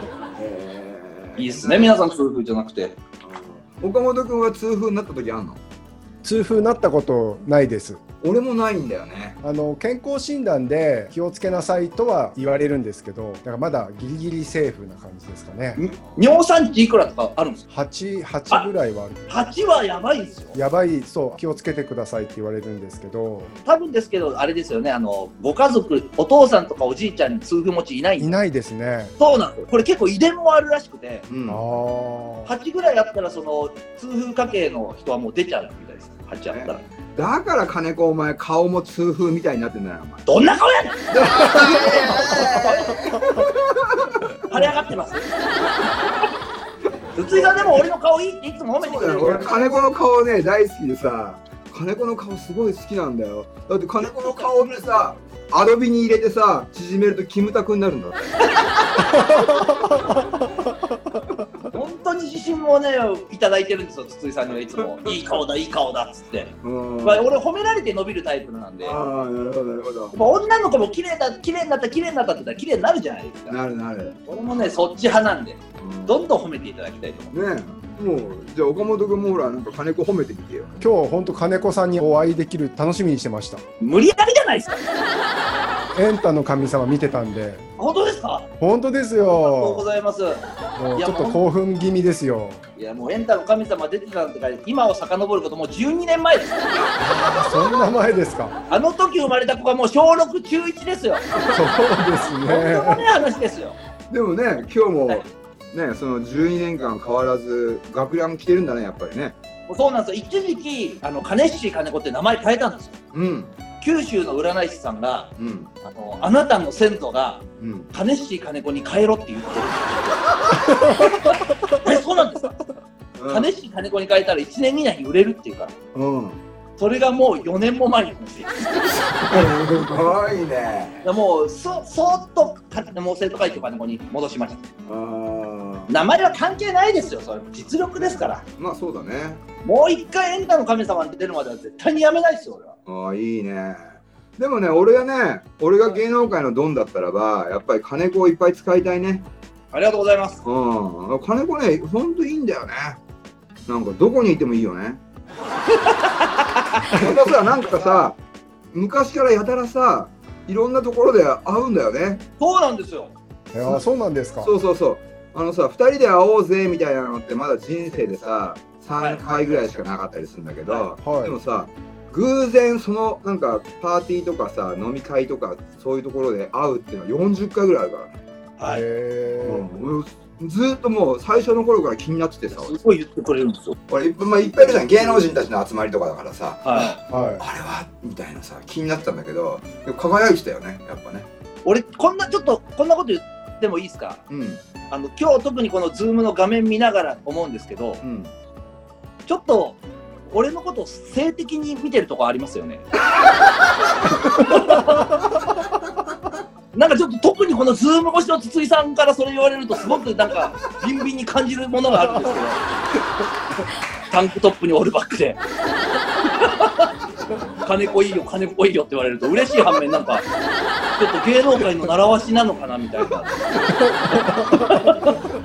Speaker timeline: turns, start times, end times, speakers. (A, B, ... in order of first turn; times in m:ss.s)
0:00.4-0:02.0 A
0:01.4-0:03.0 B
0:03.2-0:05.6 A
0:06.2-0:08.0 C
0:08.2-0:09.4 A
0:09.4-0:15.8 C
0:15.8-0:17.6 B
0:17.7-0:19.3 C
0:19.3-0:20.6 B
0:20.5-0:23.5 C
0:23.7-0:28.4 B
0:28.2-0:29.2 C
0:29.2-0:31.2 B
0:31.3-0:31.6 A
0:31.5-0:32.5 C
0:32.5-0:36.8 B
0:36.5-0:40.2 A
0:40.3-0:43.4 B
0:41.1-0:44.7 A
0:44.5-0:45.3 B
0:45.6-0:46.2 A
0:47.2-0:49.7 B
0:47.2-0:47.8 A
0:48.8-0:59.1 A
0:54.0-0:54.9 B
0:58.5-0:59.1 B
0:59.3-1:00.2 C
1:01.7-1:06.5 B
1:06.6-1:07.3 A
1:07.0-1:09.0 B
1:08.8-1:10.2 A
1:10.1-1:13.6 B
1:13.5-1:14.8 A
1:14.3-1:17.3 B
1:15.8-1:16.2 A
1:17.3-1:20.8 A
1:20.8-1:23.6 C
1:23.8-1:24.9 B
1:25.9-1:27.7 C
1:27.8-1:28.5 B
1:28.6-1:29.8 C
1:29.4-1:30.4 B
1:30.8-1:32.6 C
1:31.0-1:31.4 B
1:32.8-1:37.4 B
1:36.7-1:37.7 A
1:37.0-1:38.6 C
1:38.7-1:41.3 B
1:41.3-1:42.3 A
1:41.5-1:43.1 C
1:42.4-1:43.8 B
1:44.1-1:49.4 A
1:49.7-1:53.0 B
1:53.1-1:53.5 A
1:53.8-1:55.3 B
1:55.4-1:55.7 A
1:55.8-2:02.6 B
1:57.6-1:57.9 A
2:03.2-2:03.5 A
2:03.3-2:05.7 B
2:05.9-2:06.4 A
2:06.8-2:09.4 B
2:09.0-2:11.0 A
2:11.0-2:14.6 B
2:14.9-2:15.9 A
2:15.9-2:18.4 B
2:18.0-2:19.4 A
2:19.6-2:22.8 B
2:22.9-2:29.2 A
2:29.7-2:30.4 B
2:30.4-2:33.0 A
2:33.7-2:35.0 A
2:35.7-2:37.0 B
2:36.9-2:38.2 A
2:38.7-2:42.2 A
2:42.4-2:43.1 B
2:43.5-2:44.5 C
2:44.4-2:58.1 A
2:49.0-2:49.6 B
2:51.0-2:51.4 C
2:58.6-2:58.8 B
2:58.6-2:59.7 C
2:59.4-3:02.8 A
3:02.5-3:03.8 B
3:03.9-3:11.3 A
3:04.7-3:05.2 B
3:06.6-3:07.0 B
3:07.1-3:07.4 C
3:11.6-3:14.2 B
3:14.3-3:14.6 A
3:14.9-3:18.0 B
3:18.0-3:18.3 A
3:19.3-3:19.8 B
3:20.3-3:22.9 B
3:24.3-3:25.2 B
3:26.7-3:32.6 B
3:34.1-3:35.4 B
3:36.2-3:36.9 B
3:37.6-3:40.2 B
3:40.9-3:43.5 B
3:43.4-3:44.6 A
3:44.1-3:44.6 C
3:44.3-3:45.2 B